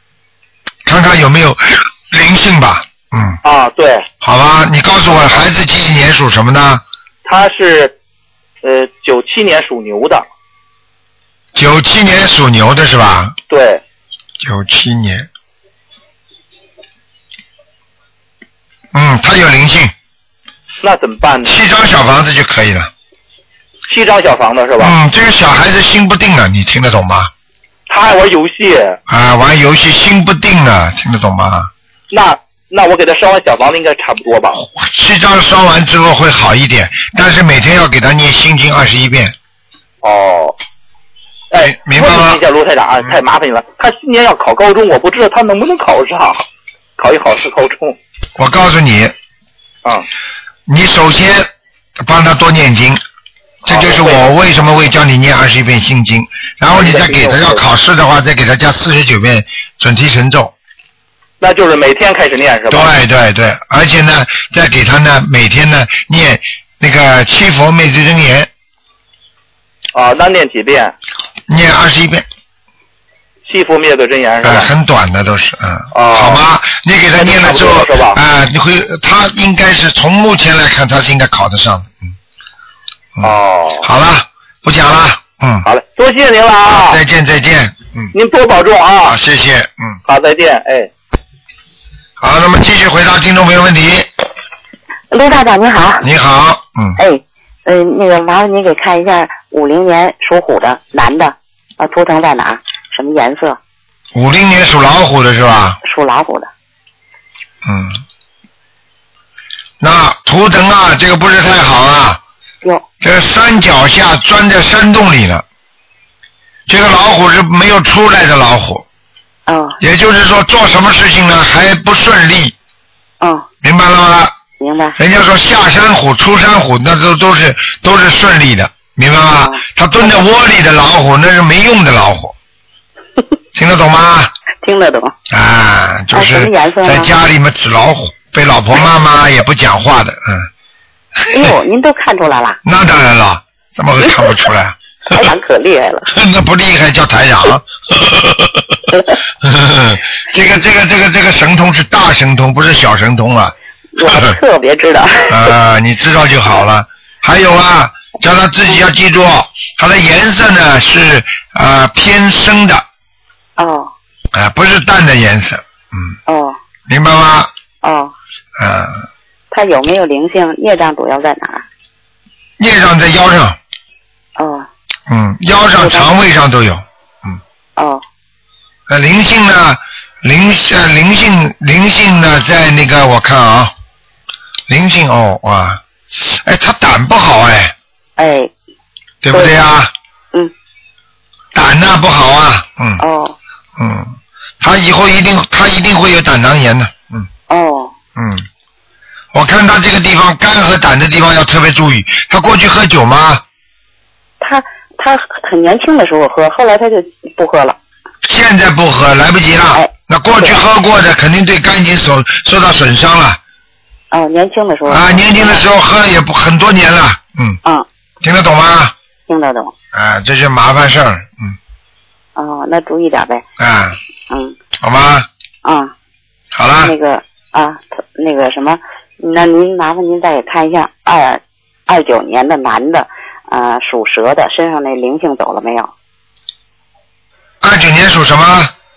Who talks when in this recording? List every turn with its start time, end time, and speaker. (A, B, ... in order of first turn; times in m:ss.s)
0:00.8-0:03.4 A
0:03.4-0:04.1 B
0:04.2-0:06.8 A
0:07.2-0:08.0 B
0:08.6-0:10.2 B
0:11.5-0:13.4 A
0:13.5-0:13.8 B
0:14.4-0:15.3 A
0:18.9-0:19.9 A
0:20.8-0:21.6 B
0:21.4-0:22.9 A
0:23.9-0:25.0 B
0:24.8-0:27.3 A
0:27.9-0:29.0 B
0:29.1-0:31.7 A
0:32.1-0:34.6 B
0:34.6-0:39.4 A
0:40.0-0:40.6 B
0:41.5-0:46.5 B
0:41.6-0:42.4 A
0:47.0-0:48.0 B
0:48.4-0:49.1 A
0:50.7-0:53.0 A
0:53.6-1:00.5 A
0:53.7-0:54.3 B
0:56.7-0:57.6 B
1:01.4-1:02.9 B
1:02.7-1:08.5 A
1:09.9-1:10.9 B
1:11.5-1:12.3 A
1:13.5-1:14.7 B
1:14.4-1:22.0 A
1:15.9-1:16.4 B
1:17.2-1:18.2 B
1:23.2-1:25.6 A
1:23.2-1:23.9 B
1:25.6-1:27.0 B
1:26.6-1:28.1 A
1:28.1-1:29.1 B
1:29.0-1:30.0 A
1:30.1-1:30.9 B
1:32.2-1:34.1 A
1:35.1-1:36.0 C
1:36.0-1:37.0 A
1:37.0-1:43.6 C
1:44.1-1:45.8 A
1:45.8-1:46.5 C
1:47.6-1:48.0 A
1:49.8-1:52.2 A
1:53.0-1:55.4 A
1:56.7-1:58.8 A
1:59.5-1:59.8 C
1:59.8-2:02.6 A
2:03.2-2:03.5 C
2:03.6-2:04.4 A
2:04.6-2:05.0 C
2:05.0-2:12.4 A
2:09.4-2:10.2 C
2:13.5-2:14.3 A
2:14.6-2:15.1 C
2:15.3-2:20.5 A
2:16.1-2:17.1 C
2:21.3-2:22.6 C
2:22.6-2:25.2 A
2:24.1-2:24.3 C
2:25.1-2:26.1 C
2:26.1-2:28.8 A
2:29.4-2:33.5 A
2:34.0-2:35.5 C
2:34.0-2:34.3 A
2:35.3-2:42.8 A
2:43.6-2:43.9 C
2:44.3-2:46.2 A
2:46.3-2:46.6 C
2:46.9-2:47.5 A
2:47.8-2:48.1 C
2:48.6-2:49.0 A
2:49.5-2:51.6 C
2:52.6-2:53.6 A
2:54.4-2:54.7 C
2:55.1-2:57.4 A
2:55.7-2:56.1 C
2:57.8-2:58.0 C
2:58.9-3:03.7 A
3:04.7-3:07.7 A
3:08.2-3:08.5 C
3:09.2-3:09.9 A
3:11.5-3:13.0 A
3:13.0-3:13.4 C
3:13.8-3:17.3 A
3:17.5-3:17.9 C
3:18.2-3:18.4 A
3:19.3-3:23.4 A
3:24.4-3:27.8 C
3:28.2-3:33.4 A
3:29.7-3:30.6 C
3:34.1-3:35.6 C
3:34.9-3:37.6 A
3:38.2-3:38.9 A
3:39.3-3:39.7 C
3:39.9-3:41.6 A
3:42.4-3:43.4 C
3:43.6-3:44.0 A
3:44.3-3:44.6 C
3:44.8-3:45.3 A
3:45.6-3:45.9 C
3:46.5-3:46.9 A
3:46.8-3:55.9 C
3:57.6-3:58.7 A